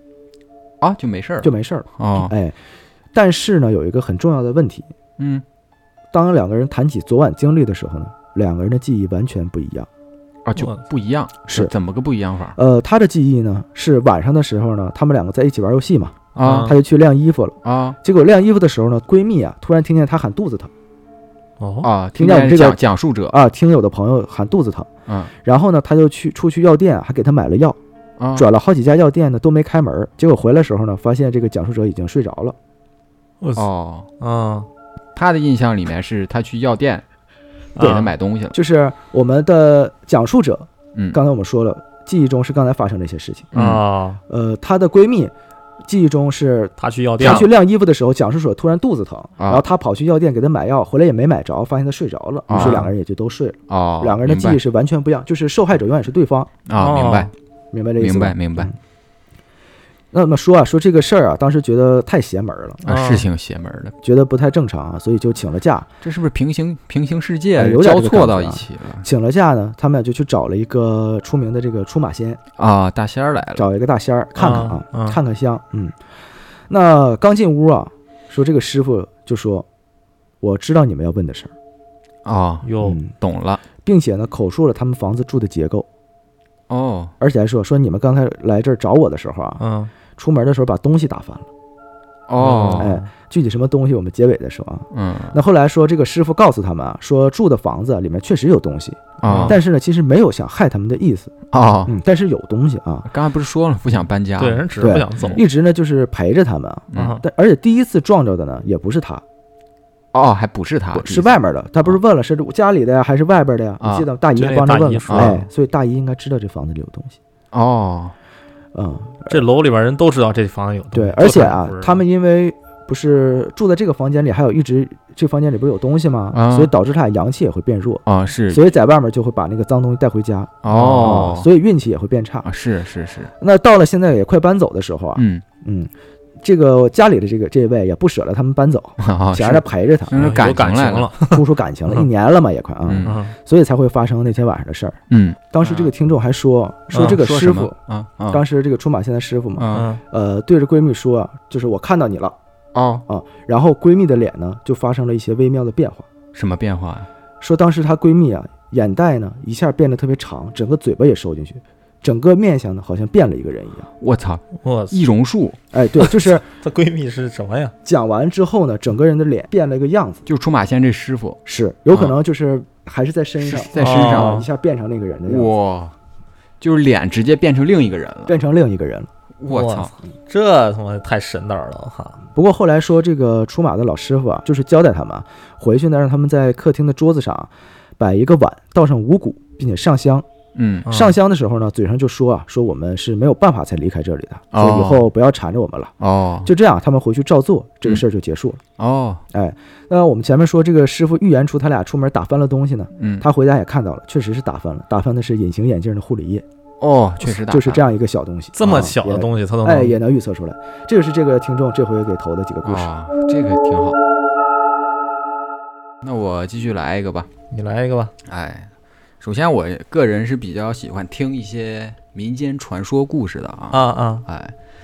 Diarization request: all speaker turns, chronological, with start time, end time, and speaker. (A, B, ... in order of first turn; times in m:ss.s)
0:00.8-0:02.3 A
0:01.4-0:02.6 B
0:03.1-0:04.9 B
0:05.2-0:05.4 A
0:06.1-0:09.9 B
0:10.4-0:12.6 A
0:11.5-0:11.7 B
0:12.6-0:20.7 B
0:16.4-0:16.8 A
0:16.4-0:16.8 C
0:17.6-0:18.0 A
0:21.6-0:21.9 C
0:21.8-0:23.4 A
0:22.2-0:24.9 B
0:25.1-0:25.3 A
0:25.4-0:27.8 B
0:28.2-0:28.5 A
0:28.4-0:32.6 B
0:33.4-0:33.7 C
0:33.6-0:34.1 A
0:34.2-0:34.7 C
0:35.2-0:37.0 A
0:37.8-0:38.6 A
0:37.8-0:38.1 C
0:37.8-0:43.5 B
0:43.5-0:43.8 A
0:43.5-0:44.2 C
0:44.3-0:45.3 B
0:45.8-0:56.5 B
0:46.8-0:47.5 C
0:49.4-0:49.6 A
0:52.5-0:52.8 A
0:52.6-0:52.9 C
0:53.7-0:54.6 A
0:56.7-0:57.3 A
0:56.8-0:57.3 C
0:57.7-0:58.8 B
0:58.0-0:58.7 A
1:00.1-1:02.8 B
1:02.8-1:03.3 C
1:02.8-1:04.0 A
1:04.0-1:05.9 B
1:06.0-1:09.1 A
1:07.6-1:12.4 B
1:12.6-1:13.7 A
1:13.6-1:16.0 B
1:14.4-1:15.2 C
1:16.7-1:19.7 B
1:20.4-1:21.5 B
1:22.2-1:23.6 A
1:22.6-1:23.0 C
1:22.8-1:23.1 B
1:23.8-1:25.9 B
1:26.7-1:27.1 A
1:27.2-1:29.6 B
1:29.6-1:29.9 C
1:30.2-1:31.5 B
1:32.3-1:32.9 A
1:32.4-1:33.1 C
1:32.8-1:41.3 B
1:34.9-1:35.4 A
1:39.2-1:39.6 A
1:39.2-1:39.6 C
1:41.5-1:42.0 A
1:41.9-1:43.1 B
1:43.1-1:45.4 A
1:44.4-1:45.4 C
1:44.8-1:49.2 B
1:46.9-1:47.2 A
1:46.9-1:47.2 C
1:50.1-1:51.4 A
1:50.9-1:57.2 B
1:53.8-1:54.1 A
1:54.4-1:55.5 C
1:55.1-1:55.4 A
1:57.5-1:58.2 A
1:58.7-1:59.4 B
1:59.3-2:02.0 C
2:00.9-2:12.5 B
2:06.3-2:06.7 A
2:08.1-2:08.6 A
2:10.6-2:11.5 A
2:10.7-2:11.3 C
2:12.4-2:13.3 A
2:13.4-2:20.2 B
2:15.2-2:15.4 A
2:19.0-2:21.1 A
2:20.1-2:22.0 C
2:21.3-2:25.0 B
2:22.9-2:23.2 A
2:23.0-2:23.4 C
2:25.1-2:25.5 A
2:25.5-2:27.8 B
2:26.9-2:28.4 A
2:28.3-2:32.4 B
2:29.6-2:29.9 A
2:29.7-2:30.0 C
2:32.7-2:33.0 A
2:33.1-2:36.1 B
2:36.3-2:37.1 A
2:37.4-2:43.9 B
2:44.0-2:45.6 A
2:44.6-2:45.0 C
2:45.7-2:46.4 B
2:46.0-2:47.7 C
2:47.8-2:50.2 B
2:50.3-2:51.4 A
2:51.5-2:55.5 B
2:53.4-2:54.4 A
2:53.8-2:54.5 C
2:55.3-2:55.9 A
2:56.6-2:58.4 A
2:58.3-2:59.1 B
2:59.4-2:59.9 A
2:59.5-3:02.2 C
3:02.4-3:10.3 B
3:10.6-3:10.9 A
3:10.9-3:11.2 C
3:10.9-3:15.9 B
3:14.5-3:15.1 A
3:16.0-3:16.5 A
3:16.4-3:18.6 B
3:18.8-3:19.2 A
3:19.3-3:26.4 B
3:23.0-3:23.3 A
3:26.8-3:27.8 A
3:27.3-3:32.9 B
3:28.6-3:30.0 C
3:32.6-3:34.0 A
3:36.0-3:37.3 A
3:37.5-3:38.1 C
3:38.2-3:38.7 A
3:39.2-3:44.5 A
3:43.7-3:44.2 C